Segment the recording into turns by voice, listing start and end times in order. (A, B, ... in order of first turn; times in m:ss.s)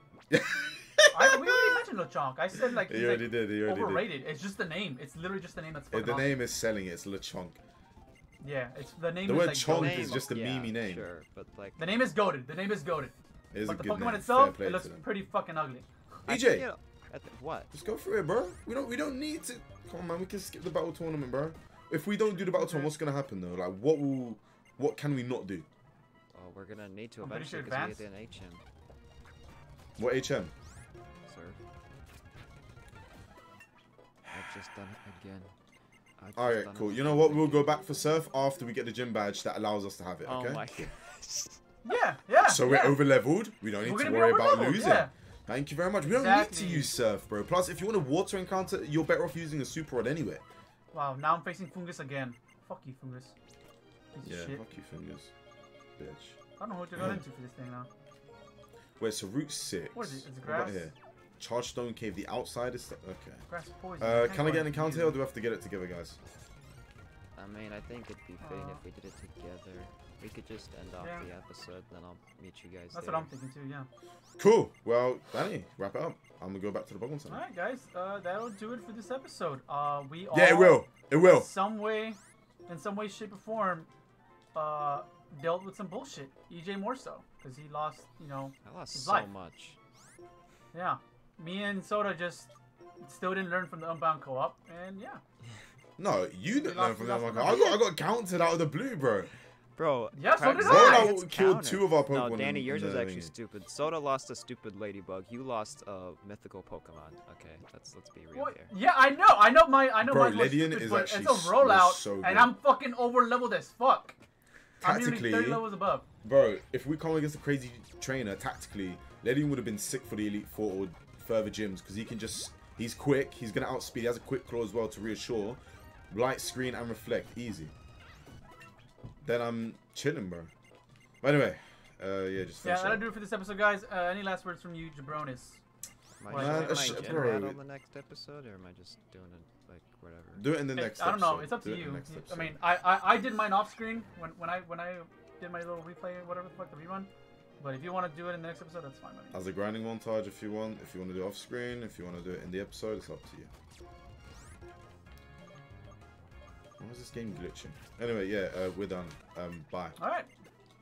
0:00.3-0:01.4 A
0:01.1-0:06.4 B
0:02.7-0:04.1 A
0:05.9-0:07.6 A
0:08.4-0:10.4 B
0:09.2-0:11.0 A
0:09.6-0:11.8 C
0:11.8-0:15.9 B
0:13.5-0:15.0 A
0:16.3-0:16.6 A
0:16.3-0:17.7 C
0:17.7-0:25.6 A
0:22.3-0:22.9 B
0:26.3-0:28.6 C
0:27.2-0:28.0 B
0:30.0-0:30.5 A
0:31.3-0:31.6 C
0:34.3-0:35.5 C
0:36.2-0:37.8 C
0:36.4-0:40.9 A
0:40.2-0:41.6 C
0:41.8-0:43.0 B
0:42.4-0:50.4 A
0:43.8-0:45.1 B
0:46.0-0:46.9 B
0:50.9-0:53.3 B
0:54.1-0:54.6 B
0:54.2-0:55.3 A
0:56.0-0:56.4 A
0:56.6-0:57.9 B
0:59.0-1:03.4 A
0:59.9-1:00.9 B
1:03.5-1:05.2 B
1:04.0-1:06.2 A
1:07.3-1:13.3 C
1:08.4-1:08.8 B
1:11.0-1:11.3 B
1:12.9-1:13.9 B
1:14.4-1:17.4 A
1:17.3-1:23.9 B
1:20.3-1:21.5 A
1:24.5-1:29.3 B
1:28.6-1:29.8 C
1:30.7-1:35.2 B
1:36.0-1:39.3 A
1:36.5-1:37.8 B
1:37.4-1:37.8 C
1:39.8-1:48.7 C
1:40.1-1:41.1 B
1:40.5-1:43.3 A
1:48.3-1:54.2 B
1:50.0-1:52.5 A
1:54.8-1:55.7 A
1:54.8-1:56.0 B
1:56.2-2:05.6 A
2:06.1-2:07.7 A
2:09.2-2:10.5 A
2:11.2-2:13.0 A
2:12.6-2:15.6 B
2:16.2-2:20.4 C
2:16.3-2:17.4 B
2:16.3-2:17.6 A
2:20.4-2:22.6 A
2:20.8-2:29.4 B
2:29.3-2:33.5 A
2:36.8-2:40.0 A
2:40.0-2:40.3 B